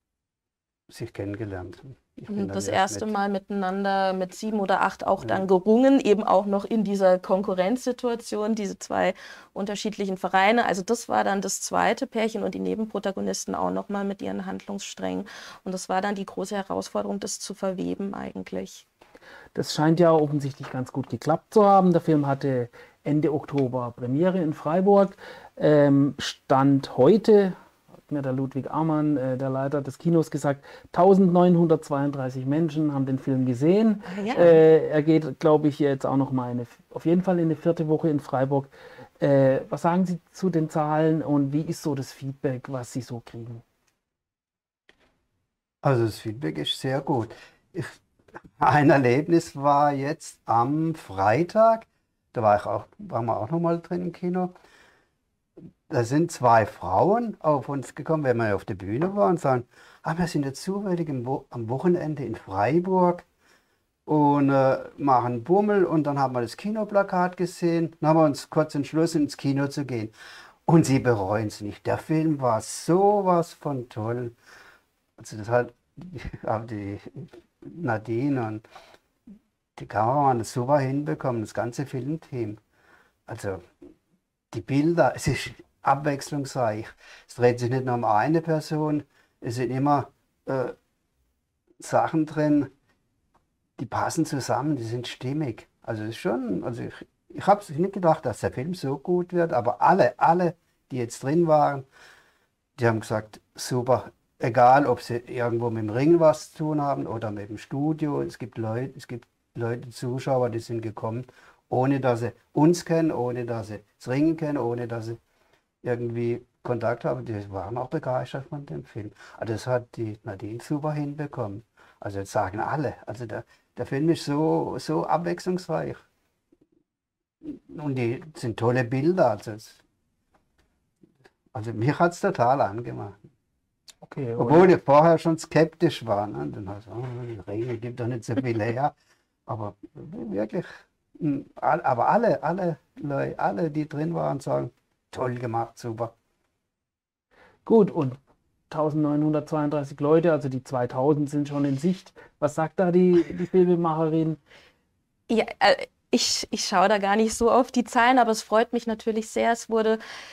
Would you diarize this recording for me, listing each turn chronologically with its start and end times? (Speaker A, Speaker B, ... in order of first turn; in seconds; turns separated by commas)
Speaker A: 0.9-3.1, Speaker B: 2.3-18.9, Speaker C: 19.6-27.6, Speaker C: 28.1-43.6, Speaker B: 34.1-34.6, Speaker A: 45.8-48.0, Speaker A: 48.6-54.5, Speaker A: 55.9-63.2, Speaker A: 64.1-70.1, Speaker A: 70.7-74.3, Speaker A: 75.2-78.6, Speaker A: 79.8-82.6, Speaker A: 83.3-83.7, Speaker A: 84.5-90.8, Speaker A: 91.8-92.7, Speaker A: 93.8-101.9, Speaker A: 102.8-115.2, Speaker A: 115.8-126.0, Speaker A: 127.4-129.8, Speaker A: 131.5-133.2, Speaker C: 134.0-134.7, Speaker A: 134.4-138.9, Speaker A: 139.5-146.1, Speaker C: 147.7-148.2, Speaker C: 148.7-154.4, Speaker B: 155.3-160.0